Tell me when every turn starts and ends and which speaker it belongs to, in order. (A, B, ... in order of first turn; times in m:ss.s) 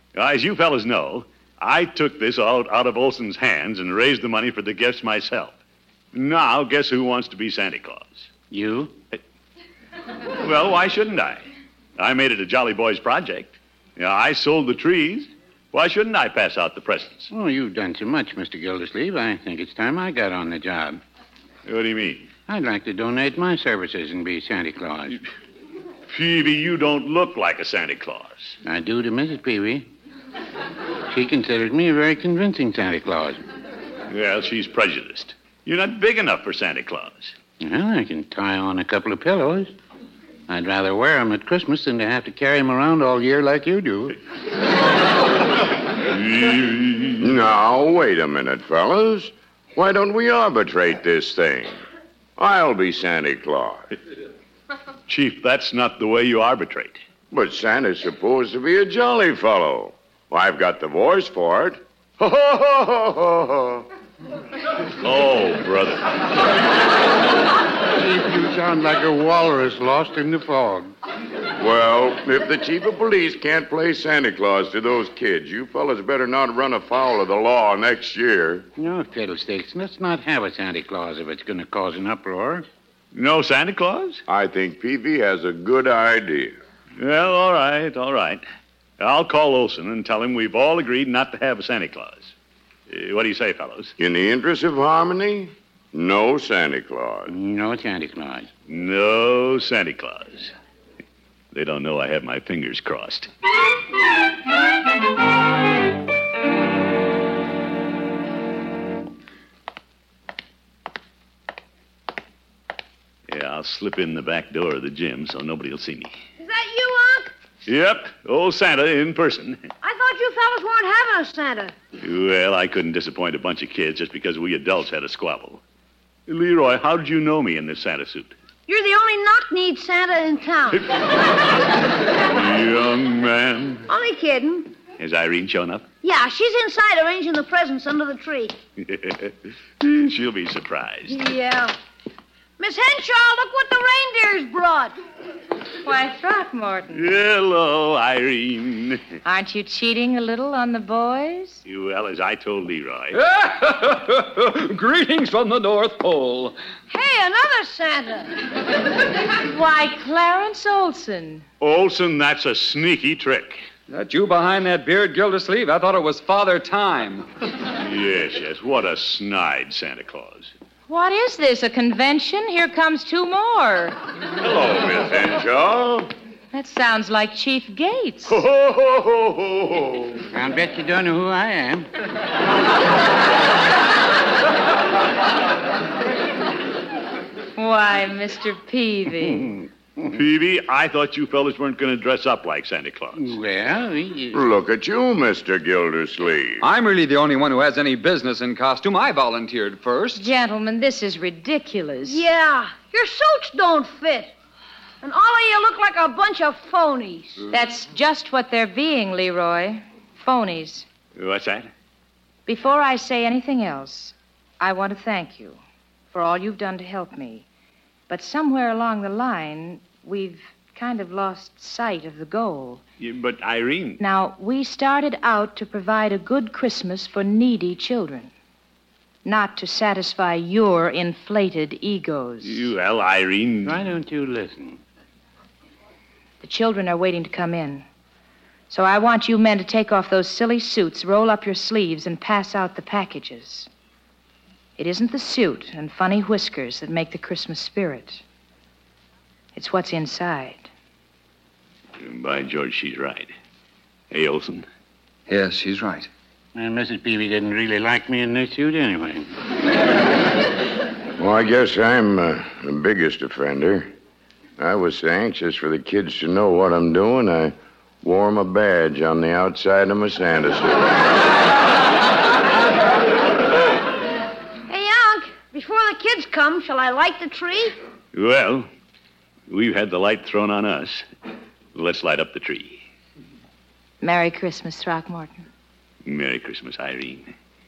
0:00.1-0:05.6 A
0:06.1-0:08.3 A
0:08.5-0:09.0 B
0:10.4-0:11.4 A
0:12.0-0:17.3 A
0:17.3-0:21.0 B
0:21.6-0:22.3 A
0:22.5-0:25.2 B
0:26.1-0:28.6 A
0:28.6-0:29.8 B
0:31.1-0:33.4 B
0:34.1-0:37.3 A
0:37.6-0:39.7 B
0:40.5-0:44.2 B
0:46.0-0:47.3 A
0:47.2-0:51.8 C
0:52.4-0:53.9 C
0:55.1-0:57.0 A
0:57.3-1:03.8 C
1:05.0-1:06.0 A
1:07.9-1:10.9 B
1:11.6-1:18.7 C
1:18.8-1:22.6 B
1:23.1-1:24.2 A
1:24.3-1:26.6 C
1:27.0-1:28.4 A
1:29.0-1:32.3 A
1:32.9-1:33.9 A
1:34.0-1:37.3 C
1:37.3-1:38.5 B
1:38.7-1:40.5 A
1:41.5-1:43.3 A
1:53.3-1:56.2 A
1:56.4-1:57.3 D
1:57.6-1:59.7 A
1:59.8-2:01.7 D
2:02.0-2:05.6 A
2:06.3-2:08.3 A
2:08.7-2:10.9 D
2:12.3-2:13.8 A
2:13.9-2:14.7 D
2:15.0-2:15.9 A
2:16.0-2:18.6 D
2:18.8-2:21.2 A
2:21.1-2:21.7 D
2:22.6-2:24.9 D
2:25.8-2:27.1 E
2:26.9-2:29.1 A
2:29.2-2:31.6 E
2:31.6-2:33.2 A
2:33.1-2:36.6 F
2:36.9-2:38.4 D
2:39.4-2:41.4 E
2:41.6-2:43.6 A
2:43.9-2:47.3 F
2:47.8-2:50.5 A
2:50.9-2:54.0 E
2:54.4-2:56.1 C
2:56.5-2:58.4 E
2:58.4-2:59.9 C
3:00.3-3:01.9 B
3:07.6-3:09.6 E
3:10.0-3:13.4 A
3:13.2-3:14.4 B
3:14.3-3:16.6 C
3:16.6-3:20.2 F
3:20.1-3:22.2 E
3:22.0-3:24.3 D
3:25.0-3:27.4 D
3:27.5-3:30.8 E
3:31.2-3:31.7 A
3:32.5-3:35.6 E
3:36.1-3:37.4 E
3:38.1-3:42.8 E
3:43.0-3:44.0 A
3:44.0-3:48.3 E
3:49.2-3:52.7 E
3:52.4-3:53.8 A
3:53.6-3:54.8 B
3:56.4-3:57.8 E
3:58.7-4:03.7 E
4:04.8-4:08.2 E
4:09.5-4:10.7 E
4:12.0-4:13.3 A
4:14.1-4:14.6 A
4:15.3-4:16.1 F
4:16.6-4:19.3 B
4:21.2-4:23.9 C
4:24.6-4:31.0 C
4:34.7-4:37.7 D
4:38.1-4:38.7 A
4:39.5-4:41.0 A
4:41.7-4:42.8 A
4:44.0-4:45.5 E
4:46.0-4:47.3 A